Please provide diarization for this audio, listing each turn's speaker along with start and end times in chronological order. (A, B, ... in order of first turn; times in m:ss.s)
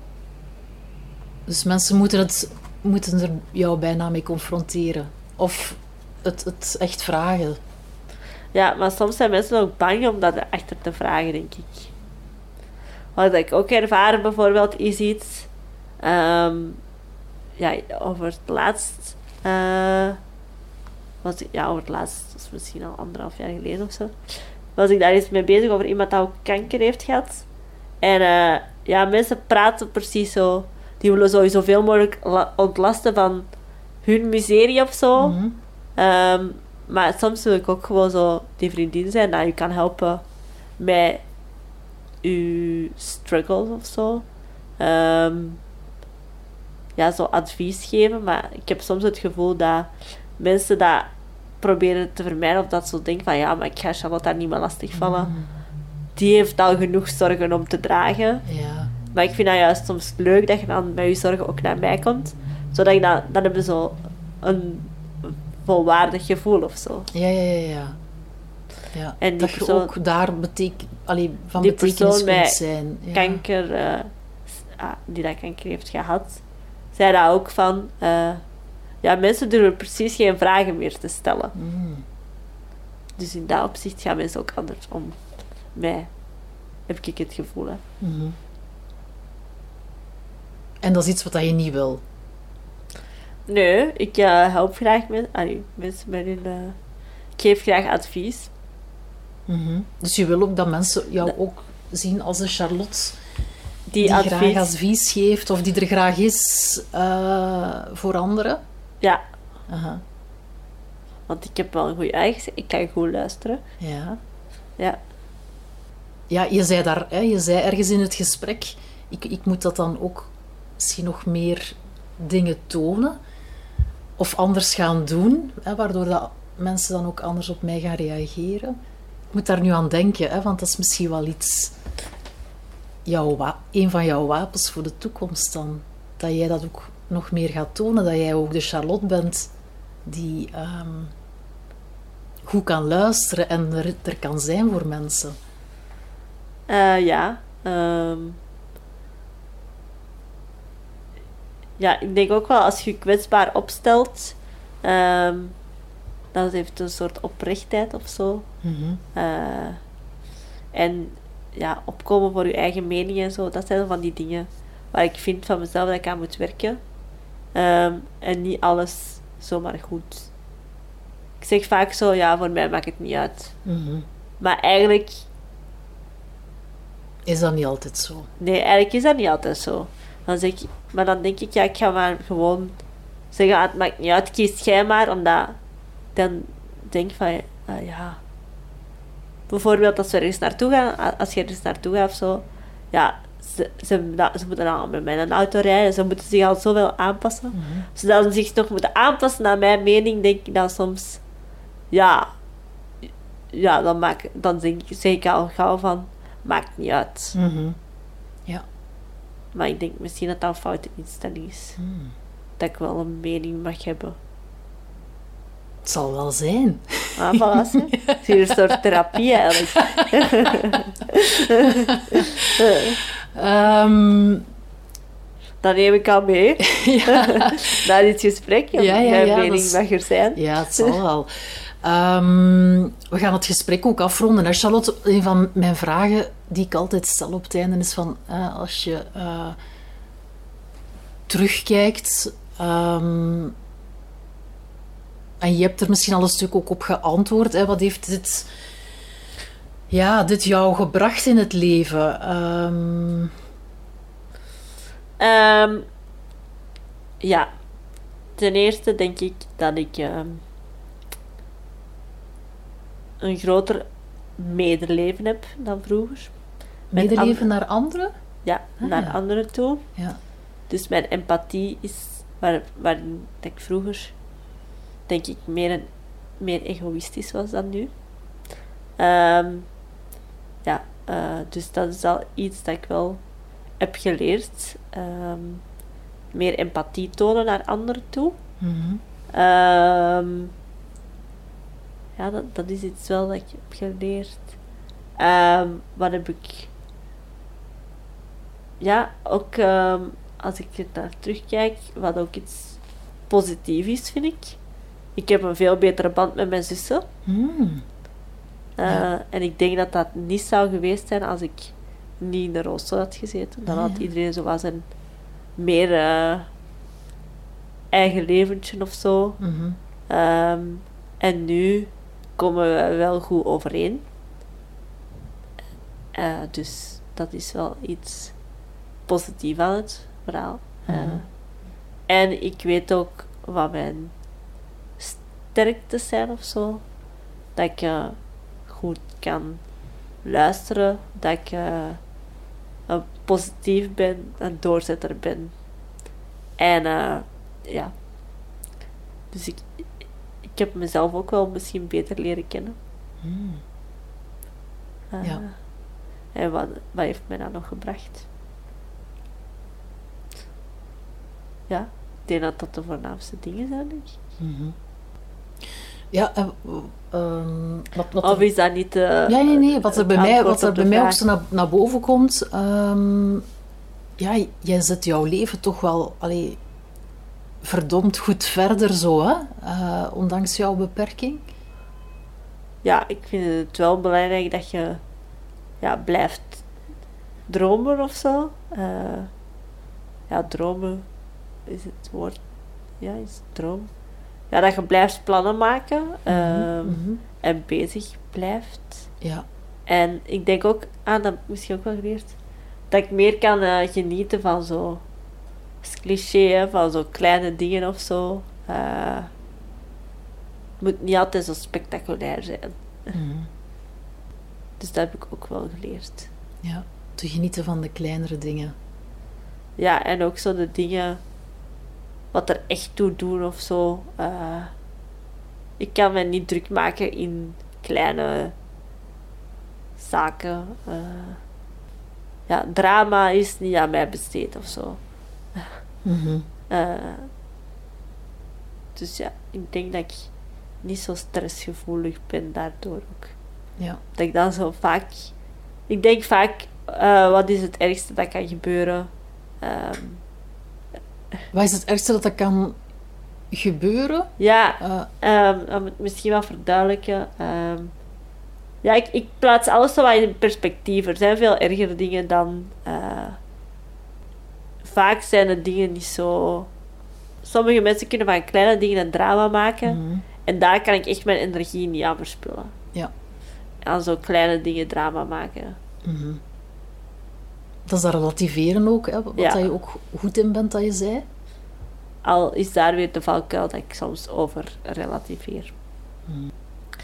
0:01.5-0:07.6 A
0:08.5-0:11.9 B
0:13.2-0:15.5 B
0:16.0-0:16.8 B
0:17.6-0:20.2 B
0:21.2-0:24.2 B
0:24.8-0:27.4 B
0:28.0-0:33.5 B
0:34.0-0:35.4 B
0:35.2-0:35.6 A
0:36.0-0:40.2 B
0:40.8-0:41.2 B
0:42.2-0:44.2 B
0:44.8-0:45.6 B
0:47.0-0:51.1 B
0:51.6-0:55.3 B
0:55.0-0:55.5 A
0:56.2-0:58.4 B
0:58.5-0:58.9 A
0:59.1-1:07.1 B
1:07.1-1:08.0 A
1:08.9-1:13.4 A
1:09.2-1:09.9 B
1:11.6-1:12.6 B
1:13.1-1:16.4 B
1:16.9-1:18.4 B
1:19.0-1:21.5 B
1:21.6-1:22.0 A
1:23.2-1:25.2 B
1:25.8-1:26.1 B
1:26.9-1:27.8 B
1:28.0-1:28.4 A
1:30.8-1:32.0 A
1:33.5-1:36.8 B
1:37.4-1:38.5 B
1:39.5-1:43.2 A
1:43.9-1:44.7 B
1:44.0-1:48.6 A
1:49.7-1:50.0 A
1:51.3-1:53.6 B
1:53.8-1:54.2 A
1:56.3-2:03.2 A
2:04.2-2:08.8 A
2:09.3-2:11.8 A
2:13.0-2:19.5 A
2:20.1-2:21.1 A
2:22.4-2:25.4 A
2:26.7-2:28.4 B
2:31.8-2:35.6 B
2:36.3-2:38.5 B
2:38.6-2:39.0 A
2:39.2-2:39.8 B
2:40.7-2:46.8 B
2:47.5-2:50.3 B
2:51.4-2:53.5 B
2:53.6-2:54.1 A
2:54.4-2:55.3 B
2:57.3-2:58.3 A
2:58.4-3:02.8 B
3:03.3-3:05.6 B
3:06.2-3:08.2 B
3:09.5-3:21.2 B
3:17.5-3:17.9 A
3:21.9-3:22.3 B
3:23.5-3:27.4 B
3:27.4-3:27.8 A
3:29.5-3:31.8 B
3:31.8-3:32.1 A
3:32.6-3:34.2 B
3:35.8-3:38.8 A
3:37.2-3:43.0 B
3:39.5-3:40.7 A
3:41.6-3:44.5 A
3:45.6-3:51.0 B
3:46.6-3:47.8 A
3:48.8-3:49.8 A
3:50.4-3:59.6 A
4:01.3-4:03.6 A
4:05.4-4:08.5 A
4:09.9-4:13.3 A
4:15.2-4:15.9 B
4:17.2-4:17.5 B
4:18.4-4:20.4 B
4:23.2-4:23.8 B
4:24.4-4:26.3 B
4:26.9-4:28.1 A
4:27.0-4:27.5 B
4:28.4-4:29.8 B
4:28.8-4:29.2 A
4:30.7-4:34.1 B
4:35.1-4:35.9 B
4:36.4-4:37.9 B
4:39.0-4:39.7 B
4:40.6-4:43.2 B
4:43.8-4:45.6 B
4:46.3-4:48.4 B
4:48.6-4:49.0 A
4:49.3-4:50.5 B
4:52.2-4:54.5 B
4:55.2-4:56.7 B
4:58.8-5:04.6 B
5:05.2-5:07.0 B
5:07.3-5:07.8 A
5:08.8-5:14.9 B
5:13.7-5:14.1 A
5:15.6-5:16.5 B
5:17.9-5:19.4 B
5:19.4-5:19.8 A
5:20.1-5:24.0 B
5:26.1-5:28.4 B
5:29.1-5:31.2 B
5:30.9-5:31.2 A
5:32.1-5:34.1 B
5:35.0-5:36.8 B
5:37.6-5:38.2 B
5:38.7-5:39.6 B
5:40.2-5:42.0 B
5:42.9-5:45.5 B
5:46.6-5:47.9 B
5:49.3-5:49.8 B
5:50.4-5:52.8 B
5:53.2-5:53.6 A
5:55.1-5:55.5 B
5:56.3-5:58.3 B
6:01.7-6:04.2 B
6:04.4-6:04.8 A
6:06.1-6:08.5 A
6:08.2-6:11.2 B
6:09.3-6:13.4 A
6:14.2-6:16.6 A
6:17.6-6:21.4 A
6:22.8-6:25.0 B
6:25.8-6:26.6 B
6:27.5-6:29.3 B
6:30.3-6:31.0 B
6:31.7-6:32.4 B
6:33.0-6:33.9 B
6:34.5-6:39.1 B
6:36.3-6:37.2 A
6:39.9-6:42.4 B
6:42.9-6:45.0 B
6:45.8-6:49.3 B
6:50.8-6:53.2 B
6:53.1-6:53.5 A
6:54.8-6:56.3 B
6:56.6-6:58.8 A
6:59.8-7:01.2 B
7:02.3-7:04.7 B
7:05.8-7:08.5 B
7:10.0-7:11.4 B
7:12.5-7:15.0 B
7:16.0-7:16.5 A
7:16.7-7:17.3 B
7:19.0-7:20.3 B
7:20.8-7:23.3 B
7:24.2-7:25.3 B
7:25.9-7:29.1 B
7:29.6-7:30.2 B
7:31.5-7:32.8 A
7:33.5-7:35.1 A
7:34.4-7:37.9 B
7:38.8-7:43.4 B
7:44.8-7:46.7 B
7:47.4-7:52.7 B
7:49.8-7:50.2 A
7:53.8-7:55.8 B
7:56.0-7:56.4 A
7:57.9-8:01.3 A
7:59.4-7:59.7 B
8:02.2-8:05.7 B